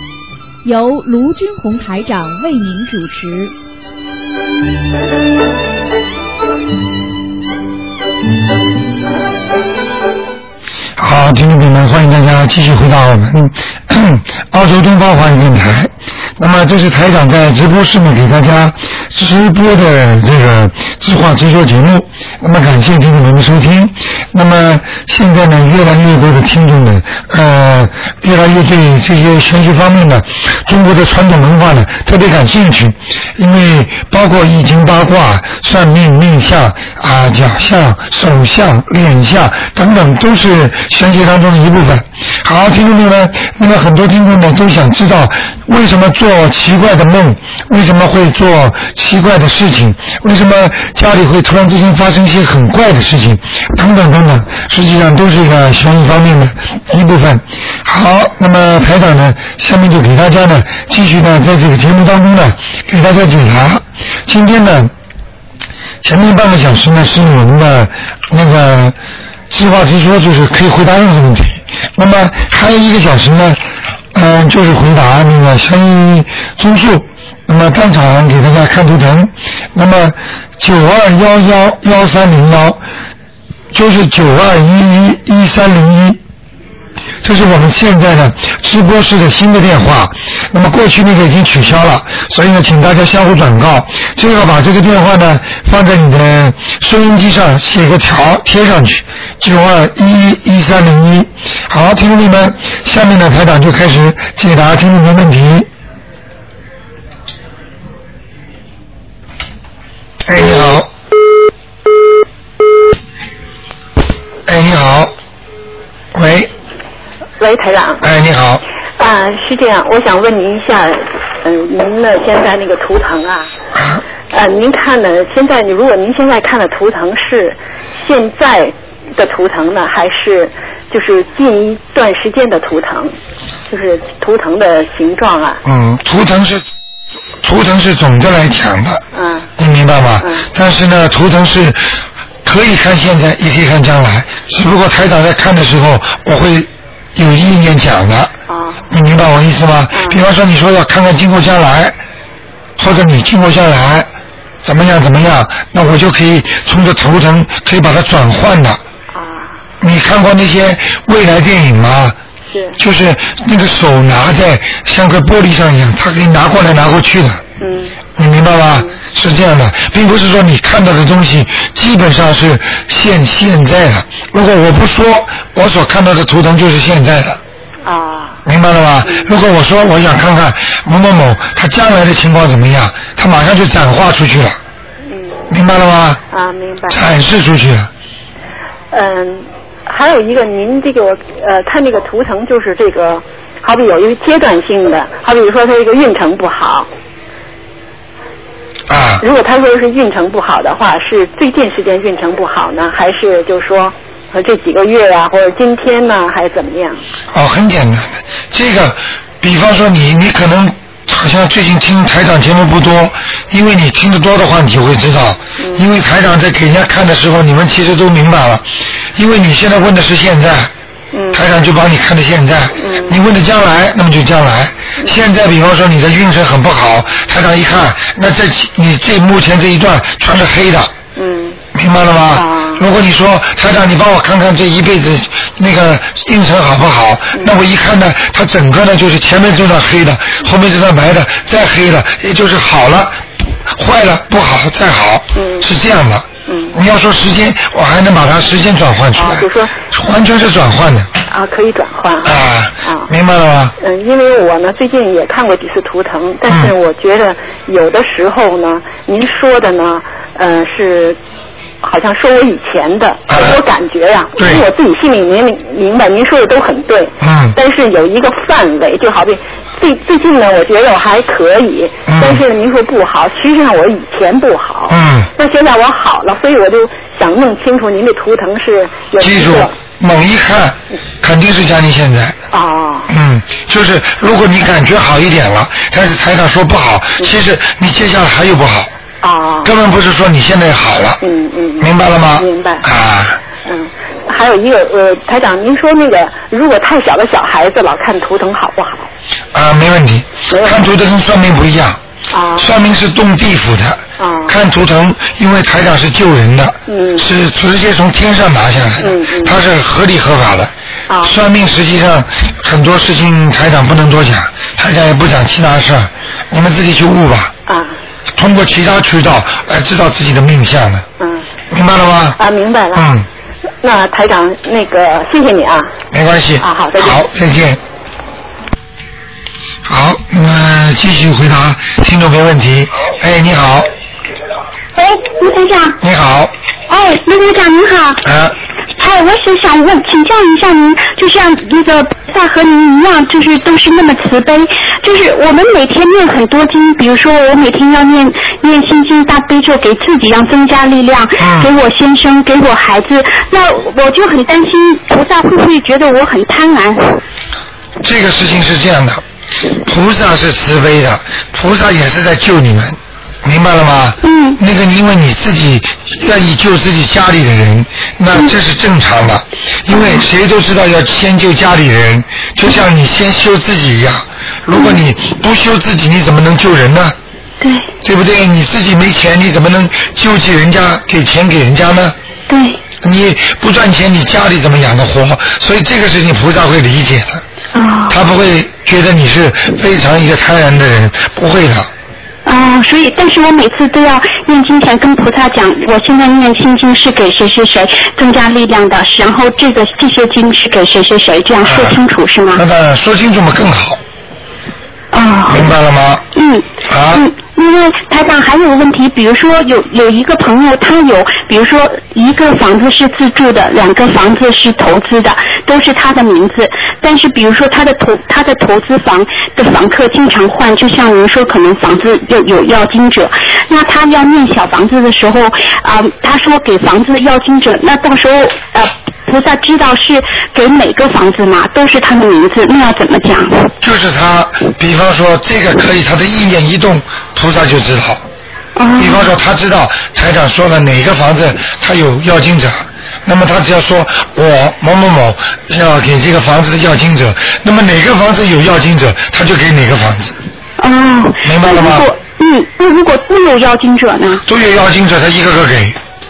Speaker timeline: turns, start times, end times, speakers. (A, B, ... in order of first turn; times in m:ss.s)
0:00.6-0:03.5 A
0:11.0-1:04.9 B
1:06.0-1:09.0 B
1:09.5-1:13.6 B
1:14.1-1:22.8 B
1:23.7-1:26.2 B
1:27.2-1:45.7 B
1:50.2-1:50.9 B
1:54.4-1:55.1 B
1:56.1-1:56.5 B
1:57.4-1:58.0 C
1:58.0-1:58.6 B
1:59.0-2:03.5 C
2:03.7-2:04.0 B
2:04.3-2:13.2 C
2:13.7-2:15.6 C
2:15.6-2:16.6 B
2:17.4-2:19.0 B
2:19.1-2:19.5 C
2:19.6-2:28.3 B
2:20.2-2:20.5 C
2:28.5-2:28.9 C
2:28.9-2:32.0 B
2:29.9-2:30.2 C
2:32.8-2:34.1 B
2:34.6-2:38.8 B
2:39.1-2:39.6 C
2:39.8-2:42.2 B
2:42.5-2:42.8 C
2:42.8-2:47.4 B
2:47.6-2:48.0 C
2:48.2-2:57.4 B
2:57.8-2:58.4 C
2:58.4-3:04.6 B
2:59.0-2:59.3 C
3:05.1-3:05.5 C
3:05.5-3:06.2 B
3:06.3-3:07.0 C
3:06.9-3:07.9 B
3:08.9-3:16.9 C
3:18.9-3:19.2 B
3:19.2-3:27.0 C
3:27.3-3:40.7 B
3:35.6-3:35.8 C
3:41.1-3:41.4 C
3:41.3-3:50.9 B
3:42.8-3:43.2 C
3:51.2-3:51.6 C
3:51.7-4:11.1 B
3:52.3-3:52.8 C
4:05.3-4:05.6 C
4:06.4-4:06.8 C
4:09.1-4:09.7 C
4:11.3-4:13.1 C
4:12.2-4:13.7 B
4:13.8-4:21.2 C
4:16.5-4:16.7 B
4:21.8-4:39.7 C
4:23.3-4:23.6 B
4:24.4-4:24.6 B
4:27.2-4:27.6 B
4:32.1-4:32.4 B
4:34.9-4:35.3 B
4:39.2-4:42.4 B
4:42.5-4:43.1 C
4:43.1-4:48.9 B
4:49.2-4:49.7 C
4:49.6-4:51.2 B
4:51.2-4:52.9 C
4:51.8-4:53.4 B
4:53.6-4:59.1 C
4:59.5-5:02.0 B
5:00.5-5:00.8 C
5:02.3-5:02.7 C
5:02.6-5:10.7 B
5:04.2-5:04.6 C
5:06.9-5:07.3 C
5:09.0-5:09.6 C
5:11.1-5:11.4 C
5:11.2-5:17.5 B
5:17.7-5:18.0 C
5:18.3-5:21.0 B
5:21.2-5:21.5 C
5:21.7-5:22.4 B
5:22.4-5:23.1 C
5:22.9-5:23.2 B
5:23.8-5:25.9 C
5:26.1-5:27.8 B
5:26.6-5:27.2 C
5:29.8-5:33.9 B
5:35.0-5:36.0 D
5:36.0-5:36.5 B
5:36.9-5:38.2 D
5:38.2-5:38.5 B
5:39.0-5:57.2 D
5:51.4-5:51.7 B
5:58.0-5:59.2 B
5:59.8-6:17.2 B
6:04.2-6:04.6 D
6:09.9-6:10.2 D
6:14.7-6:15.0 D
6:17.6-6:17.9 D
6:18.0-6:22.2 B
6:22.5-6:22.8 D
6:23.0-6:27.4 B
6:27.7-6:28.2 D
6:28.1-6:31.9 B
6:32.4-6:42.6 D
6:41.6-6:42.0 B
6:42.5-6:44.0 B
6:45.1-6:45.7 D
6:45.5-6:46.2 B
6:46.3-7:13.7 D
6:46.9-6:47.2 B
7:13.8-7:18.2 B
7:18.8-7:19.3 D
7:19.0-7:30.4 B
7:30.8-7:34.4 D
7:31.4-7:32.1 B
7:34.5-7:36.0 B